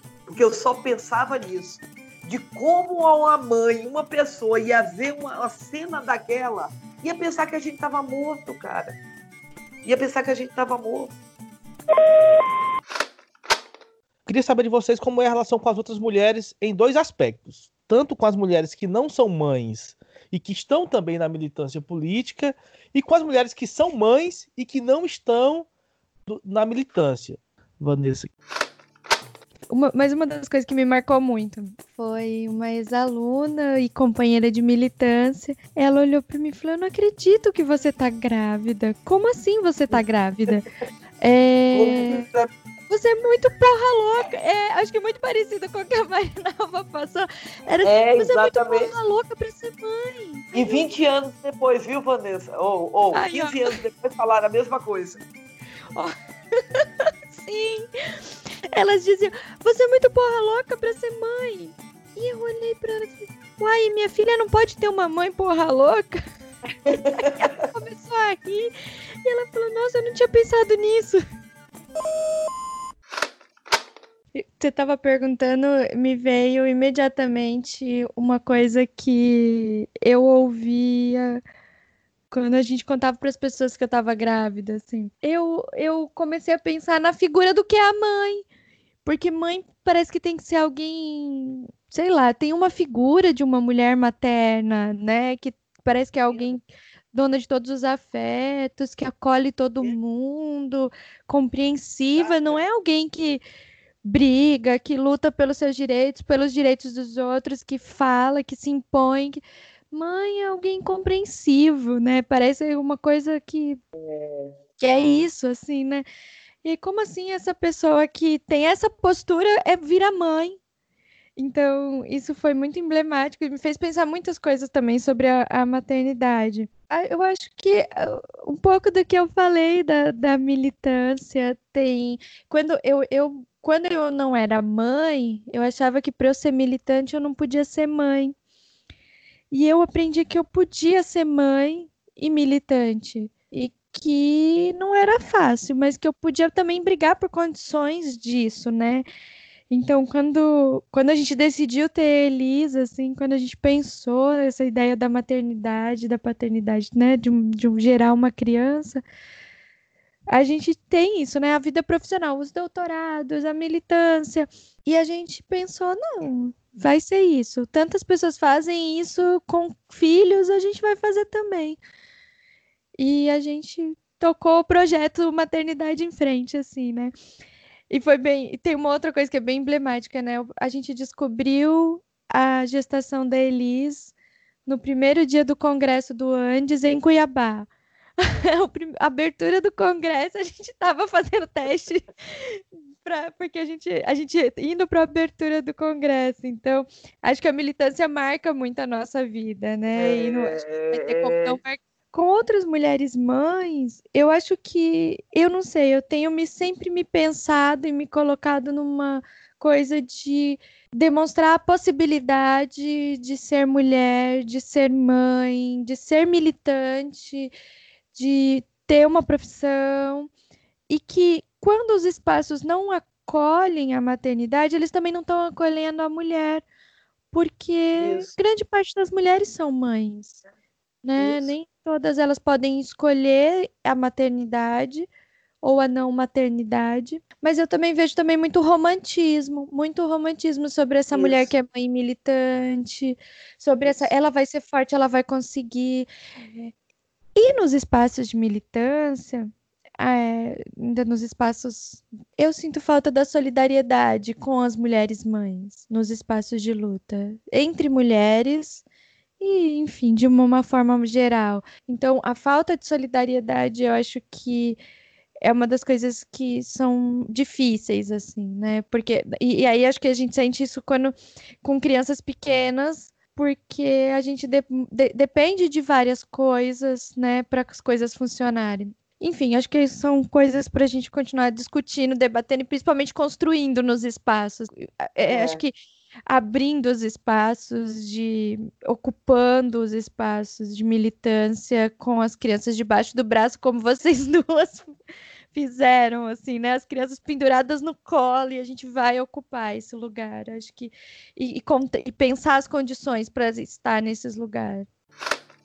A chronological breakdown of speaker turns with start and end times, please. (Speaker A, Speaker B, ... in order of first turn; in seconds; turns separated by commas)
Speaker A: 0.3-8.9, Speaker A: 9.8-11.1, Speaker B: 14.2-25.7, Speaker B: 26.3-28.3, Speaker C: 29.7-40.6, Speaker A: 39.9-40.5, Speaker C: 41.2-42.3, Speaker A: 41.7-42.5, Speaker C: 42.9-50.8, Speaker A: 47.8-48.9, Speaker A: 50.5-55.2, Speaker C: 53.1-53.7, Speaker C: 57.3-66.2, Speaker A: 66.9-67.6, Speaker C: 67.3-68.7, Speaker C: 69.2-71.2, Speaker C: 74.3-81.4, Speaker C: 82.3-88.4, Speaker C: 89.0-103.4, Speaker A: 96.3-96.5, Speaker A: 102.1-102.7, Speaker C: 104.0-109.4, Speaker C: 109.9-113.8, Speaker A: 113.9-114.5, Speaker C: 114.8-116.0, Speaker C: 116.6-120.6, Speaker C: 121.4-138.3, Speaker C: 139.5-149.0, Speaker C: 149.7-159.0, Speaker C: 160.3-171.8, Speaker C: 173.0-177.1, Speaker C: 177.9-184.1, Speaker C: 184.7-187.7, Speaker C: 188.2-217.5, Speaker A: 199.9-201.6, Speaker C: 218.1-220.3, Speaker C: 220.9-226.6, Speaker C: 227.3-230.4, Speaker A: 227.9-228.3, Speaker C: 231.0-235.1, Speaker A: 231.2-231.5, Speaker C: 235.6-246.7, Speaker A: 241.1-241.5, Speaker A: 243.8-244.1, Speaker C: 247.3-258.8, Speaker C: 259.4-264.8, Speaker C: 265.4-285.7, Speaker A: 285.2-285.6, Speaker C: 286.3-294.9, Speaker C: 295.5-304.9